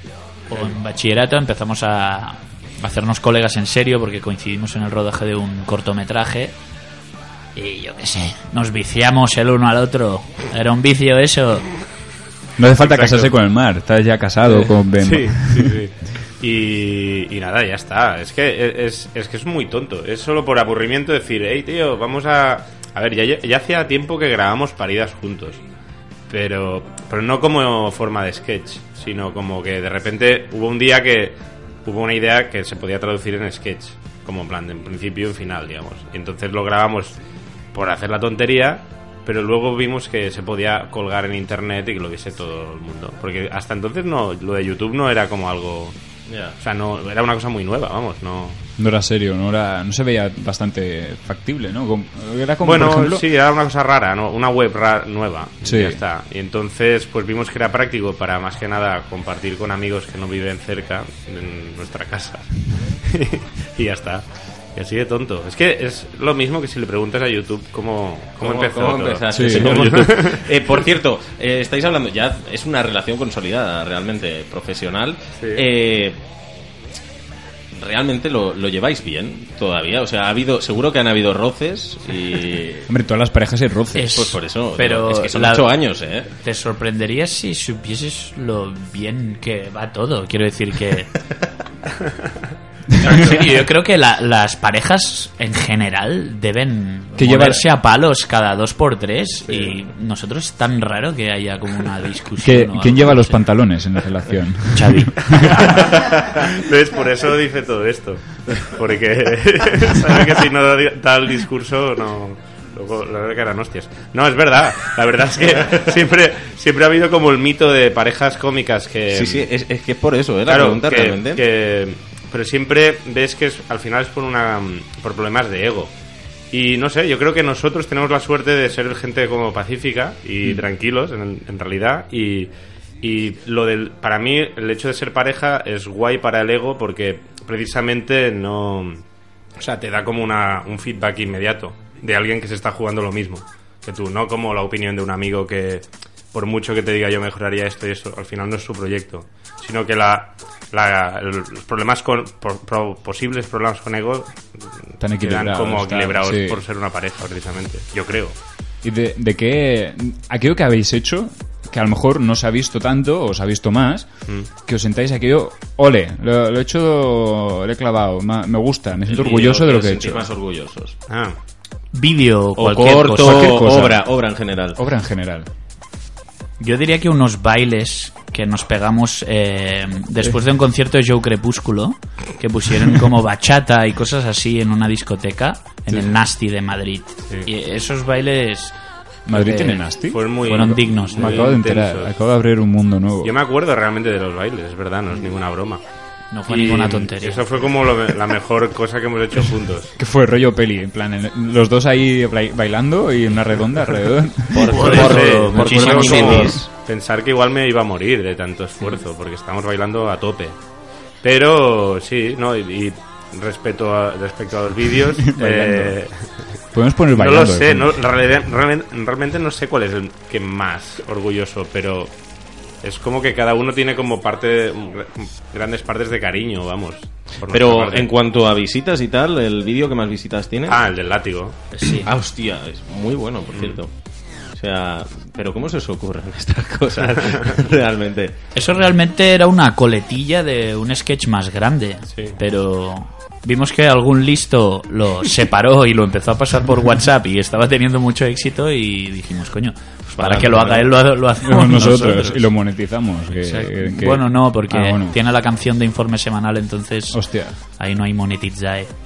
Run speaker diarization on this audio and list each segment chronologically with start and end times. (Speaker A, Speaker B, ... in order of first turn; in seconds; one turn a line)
Speaker A: 0.5-6.5
Speaker A: 7.6-11.7
Speaker B: 12.6-15.8
Speaker C: 12.8-13.3
Speaker C: 14.5-25.6
Speaker C: 26.3-37.2
Speaker C: 37.7-46.0
Speaker D: 46.3-46.6
Speaker C: 46.6-48.6
Speaker B: 48.8-53.2
Speaker C: 52.6-70.5
Speaker B: 55.6-56.0
Speaker D: 68.4-76.2
Speaker B: 69.3-69.9
Speaker C: 75.4-75.6
Speaker D: 77.8-82.9
Speaker B: 82.9-84.2
Speaker A: 84.0-85.8
Speaker D: 84.1-86.3
Speaker A: 86.3-91.1
Speaker A: 93.0-103.4
Speaker B: 97.2-97.6
Speaker B: 102.4-105.7
Speaker A: 104.7-105.4
Speaker C: 105.4-119.5
Speaker D: 119.1-121.4
Speaker C: 120.5-125.9
Speaker C: 126.5-132.5
Speaker C: 133.0-139.0
Speaker C: 139.6-158.4
Speaker B: 155.0-156.6
Speaker B: 158.8-170.3
Speaker D: 169.1-170.9
Speaker C: 171.1-171.4
Speaker A: 171.9-173.5
Speaker D: 172.6-174.8
Speaker B: 173.2-174.1
Speaker B: 174.8-175.5
Speaker A: 176.6-188.8
Speaker B: 189.3-193.3
Speaker A: 189.3-191.5
Speaker C: 190.0-192.1
Speaker C: 193.2-195.8
Speaker A: 196.3-197.4
Speaker C: 196.5-199.9
Speaker B: 200.0-204.6
Speaker D: 204.5-206.7
Speaker A: 204.6-206.6
Speaker C: 204.8-210.6
Speaker B: 206.2-206.7
Speaker C: 211.2-216.1
Speaker B: 215.2-216.0
Speaker B: 216.7-218.0
Speaker C: 217.1-222.1
Speaker C: 222.8-228.1
Speaker D: 227.5-230.8
Speaker C: 230.7-231.6
Speaker A: 231.8-232.1
Speaker D: 232.0-233.9
Speaker C: 233.5-233.8
Speaker D: 234.5-238.3
Speaker C: 237.0-237.6
Speaker A: 238.6-252.5
Speaker D: 250.2-250.6
Speaker B: 251.4-255.2
Speaker A: 253.4-258.9
Speaker B: 257.1-257.6